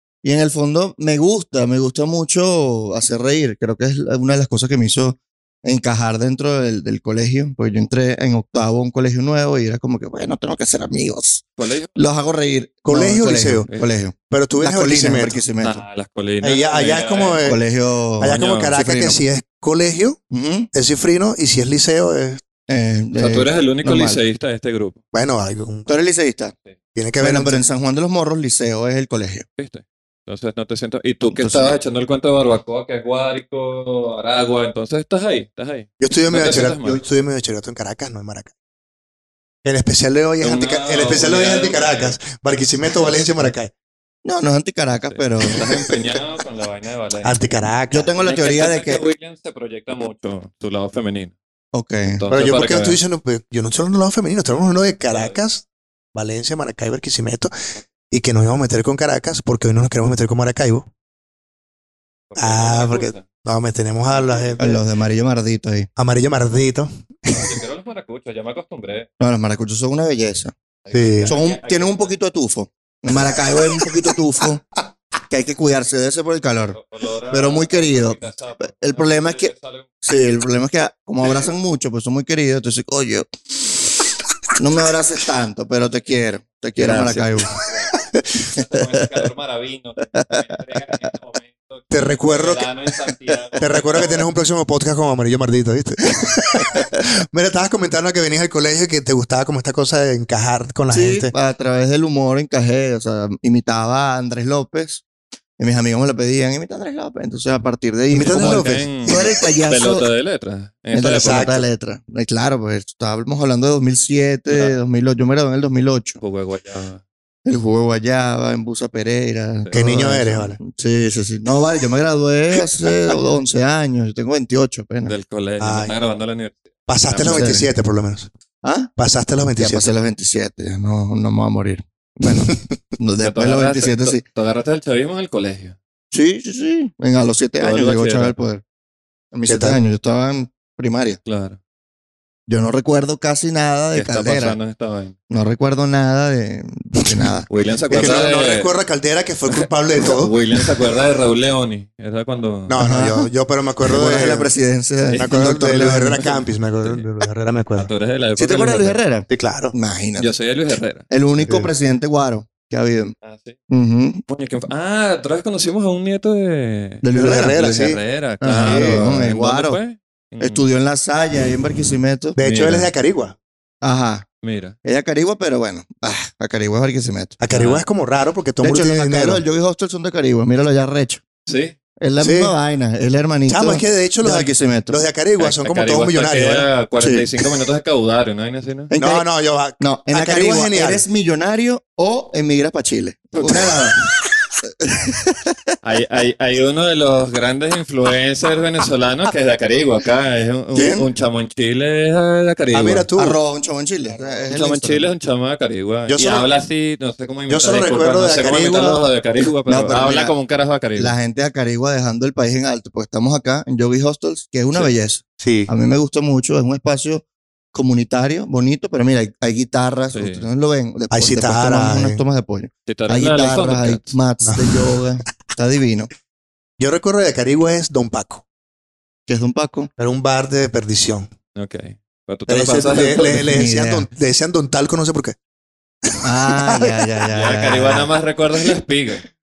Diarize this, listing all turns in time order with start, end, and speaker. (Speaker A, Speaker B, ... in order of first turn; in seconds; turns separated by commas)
Speaker A: 0.2-15.8, Speaker B: 11.6-11.9, Speaker C: 12.8-13.7, Speaker C: 14.3-15.4, Speaker B: 15.6-17.4, Speaker C: 16.4-17.6, Speaker A: 17.4-19.2, Speaker C: 18.2-20.2, Speaker B: 18.3-18.8, Speaker A: 20.3-20.7, Speaker C: 20.7-22.4, Speaker A: 22.7-24.2, Speaker B: 23.1-25.0, Speaker C: 25.1-25.9, Speaker A: 25.9-26.5, Speaker C: 27.0-27.6, Speaker A: 27.2-29.5, Speaker B: 29.6-37.0, Speaker A: 31.3-31.8, Speaker C: 36.0-38.5, Speaker C: 39.6-43.7, Speaker B: 40.4-42.2, Speaker A: 44.2-46.1, Speaker B: 45.0-51.4, Speaker C: 47.2-48.1, Speaker A: 47.9-49.0, Speaker A: 51.7-52.2, Speaker B: 52.0-53.0, Speaker C: 52.3-57.5, Speaker B: 55.1-55.4, Speaker C: 58.1-60.9, Speaker B: 62.3-63.2, Speaker C: 62.4-64.8, Speaker B: 64.1-64.6, Speaker A: 64.6-65.9, Speaker C: 66.0-67.6, Speaker B: 67.3-69.1, Speaker A: 69.2-70.5, Speaker B: 70.8-72.1, Speaker C: 70.9-71.3, Speaker A: 71.3-74.6, Speaker A: 75.3-76.8, Speaker B: 76.8-79.9, Speaker A: 77.3-79.5, Speaker A: 80.0-83.8, Speaker A: 84.6-87.6, Speaker B: 86.8-94.2, Speaker C: 91.9-92.7, Speaker C: 93.6-101.3, Speaker A: 96.6-96.8, Speaker A: 100.9-105.0, Speaker A: 105.6-110.1, Speaker C: 108.1-108.9, Speaker B: 108.3-111.5, Speaker A: 110.9-116.2, Speaker C: 111.2-111.6, Speaker B: 114.5-114.8, Speaker B: 116.2-117.0, Speaker A: 117.5-125.2, Speaker B: 119.6-120.1, Speaker C: 119.7-120.6, Speaker B: 125.1-127.5, Speaker C: 125.6-125.9, Speaker C: 126.9-128.3, Speaker A: 127.2-127.7, Speaker A: 128.6-128.9, Speaker C: 129.0-129.9, Speaker A: 129.6-134.2, Speaker B: 133.2-135.8, Speaker A: 136.1-138.6, Speaker B: 137.6-138.4, Speaker A: 139.3-141.2, Speaker C: 139.5-139.8, Speaker B: 141.3-141.6, Speaker A: 142.5-144.6, Speaker B: 143.9-145.2, Speaker A: 145.3-148.1, Speaker B: 147.5-148.8, Speaker C: 147.9-150.4, Speaker B: 149.5-152.8, Speaker C: 152.7-154.5, Speaker A: 152.8-153.3, Speaker A: 153.8-156.3, Speaker B: 155.0-157.1, Speaker C: 155.2-157.9, Speaker B: 157.8-159.0, Speaker A: 158.4-160.3, Speaker C: 159.3-159.7, Speaker B: 160.2-161.1, Speaker A: 161.1-163.2, Speaker C: 161.4-161.7, Speaker B: 163.2-163.6, Speaker A: 163.7-164.2, Speaker B: 164.3-170.7, Speaker A: 167.0-167.6, Speaker C: 167.1-168.0, Speaker A: 168.4-169.8, Speaker C: 168.7-169.1, Speaker A: 170.4-172.4, Speaker C: 172.4-173.4, Speaker B: 172.4-172.9, Speaker A: 173.8-174.3, Speaker B: 174.4-174.8, Speaker A: 174.8-177.4, Speaker C: 177.4-179.4, Speaker B: 177.5-177.8, Speaker A: 178.6-181.2, Speaker B: 181.5-181.8, Speaker A: 182.0-185.0, Speaker C: 182.2-182.5, Speaker C: 183.5-186.7, Speaker B: 185.4-188.9, Speaker A: 187.0-187.3, Speaker A: 188.9-189.3, Speaker C: 189.0-191.1, Speaker A: 189.8-194.0, Speaker B: 193.4-194.0, Speaker A: 194.8-195.5, Speaker B: 195.8-203.1, Speaker A: 200.7-201.1, Speaker C: 202.7-203.4, Speaker A: 203.2-205.1, Speaker B: 204.2-211.2, Speaker C: 206.1-206.5, Speaker C: 207.5-209.1, Speaker A: 209.7-210.3, Speaker A: 211.0-226.1, Speaker C: 215.4-215.7, Speaker B: 220.1-220.5, Speaker C: 221.1-222.2, Speaker B: 222.9-224.2, Speaker C: 224.4-224.8, Speaker C: 226.8-228.4, Speaker A: 229.3-229.9, Speaker C: 230.0-231.3, Speaker B: 231.6-233.6, Speaker C: 232.5-235.4, Speaker A: 233.1-234.1, Speaker A: 236.2-238.1, Speaker C: 236.4-236.9, Speaker B: 237.3-239.2